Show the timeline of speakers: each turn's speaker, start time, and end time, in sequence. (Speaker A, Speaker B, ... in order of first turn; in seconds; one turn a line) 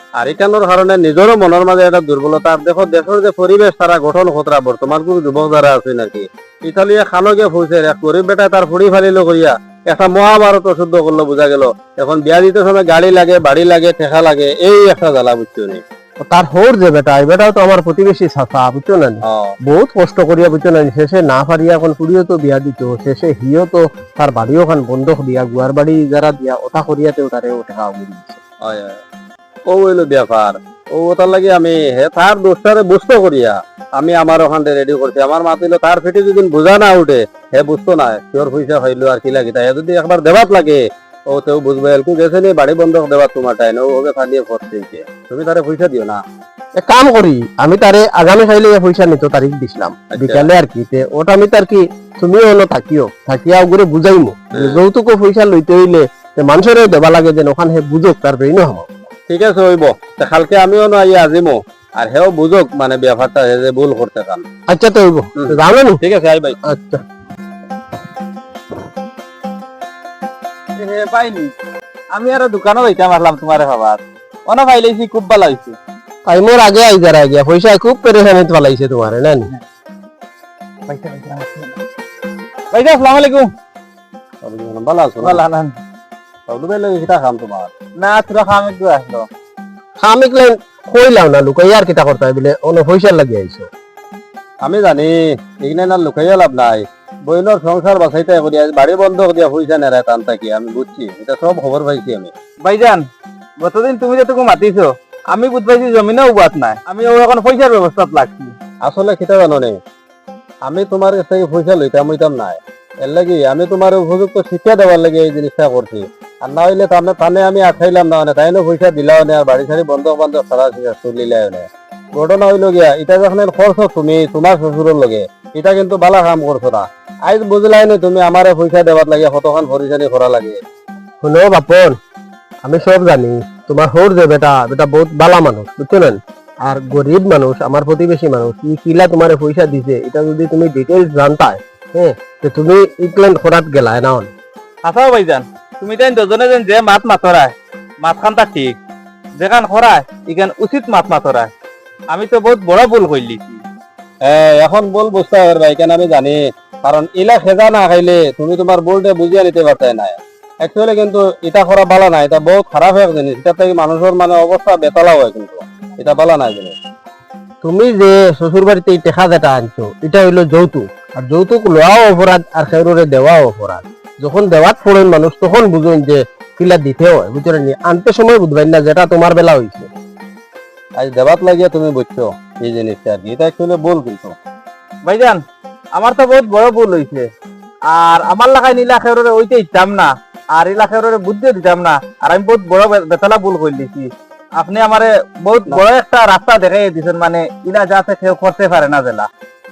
Speaker A: 0.2-15.8
Speaker B: 16.2-28.4
Speaker A: 19.2-19.5
Speaker A: 28.6-29.0
Speaker A: 29.7-46.2
Speaker B: 46.7-58.9
Speaker A: 50.1-50.5
Speaker A: 54.5-54.8
Speaker A: 59.3-64.5
Speaker B: 64.7-66.0
Speaker A: 65.4-66.6
Speaker B: 66.6-67.0
Speaker C: 70.8-71.5
Speaker C: 72.1-75.8
Speaker B: 76.2-79.5
Speaker C: 80.9-81.8
Speaker C: 82.7-83.5
Speaker A: 84.4-85.4
Speaker C: 85.2-85.7
Speaker A: 86.5-87.7
Speaker C: 88.0-89.3
Speaker B: 90.0-93.7
Speaker A: 94.6-102.3
Speaker C: 102.6-103.1
Speaker C: 103.6-108.5
Speaker A: 108.8-109.8
Speaker A: 110.6-130.6
Speaker B: 131.2-132.0
Speaker B: 132.6-144.3
Speaker C: 144.8-148.8
Speaker C: 149.4-151.5
Speaker C: 152.1-153.6
Speaker A: 154.2-166.8
Speaker B: 167.6-179.9
Speaker A: 181.0-184.4
Speaker C: 185.0-185.4
Speaker C: 185.9-187.3
Speaker C: 187.9-199.3